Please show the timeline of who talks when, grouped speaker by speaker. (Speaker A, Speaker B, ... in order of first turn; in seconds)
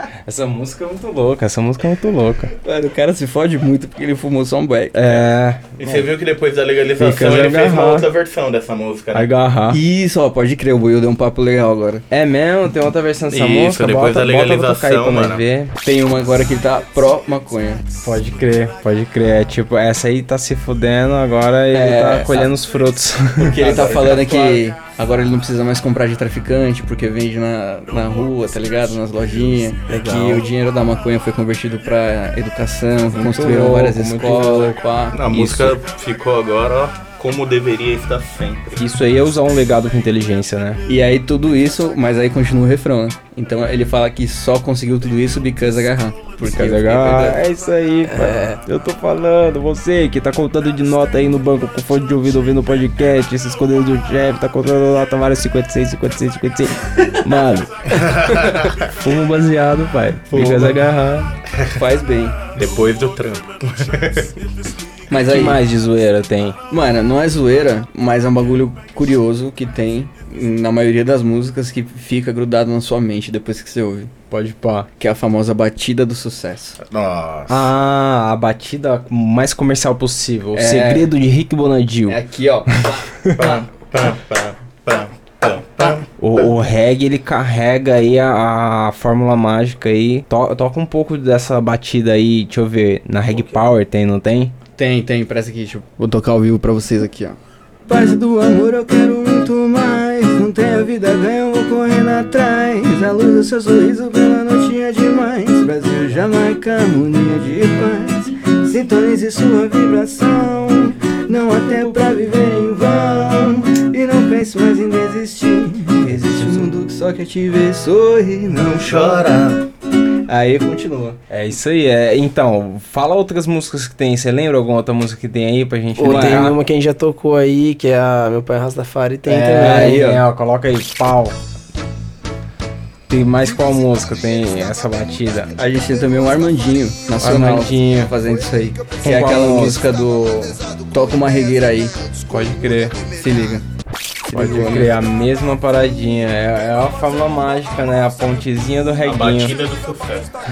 Speaker A: 0.2-2.5, 4.9-6.0, 7.0-8.1, 9.1-9.8, 12.1-15.8, 18.0-24.1, 33.1-34.8, 38.8-40.8, 46.4-61.3, 65.3-66.6, 74.3-74.9, 77.5-83.4, 86.2-94.5, 116.0-116.7, 121.3-126.6, 129.5-131.4, 133.1-135.5, 137.2-138.2, 139.0-139.9, 142.3-143.0, 144.3-149.6
Speaker B: 2.6-5.0, 9.7-12.0, 15.8-17.9, 21.7-22.5, 23.4-35.8, 40.9-47.4, 60.3-60.7, 61.7-62.4, 65.1-65.6, 66.7-74.1, 75.0-76.8, 80.5-81.1, 82.1-83.6, 94.8-119.4, 120.3-121.2, 126.0-126.5, 129.3-130.2, 135.6-141.9, 143.1-143.7, 144.2-144.9
Speaker C: 5.1-9.3, 13.3-15.4, 23.6-24.6, 35.1-38.9, 58.0-58.9, 62.5-64.3, 76.8-77.7, 83.3-86.1, 118.7-119.6, 149.0-150.3
Speaker D: 29.9-30.4, 48.1-48.6, 126.0-130.1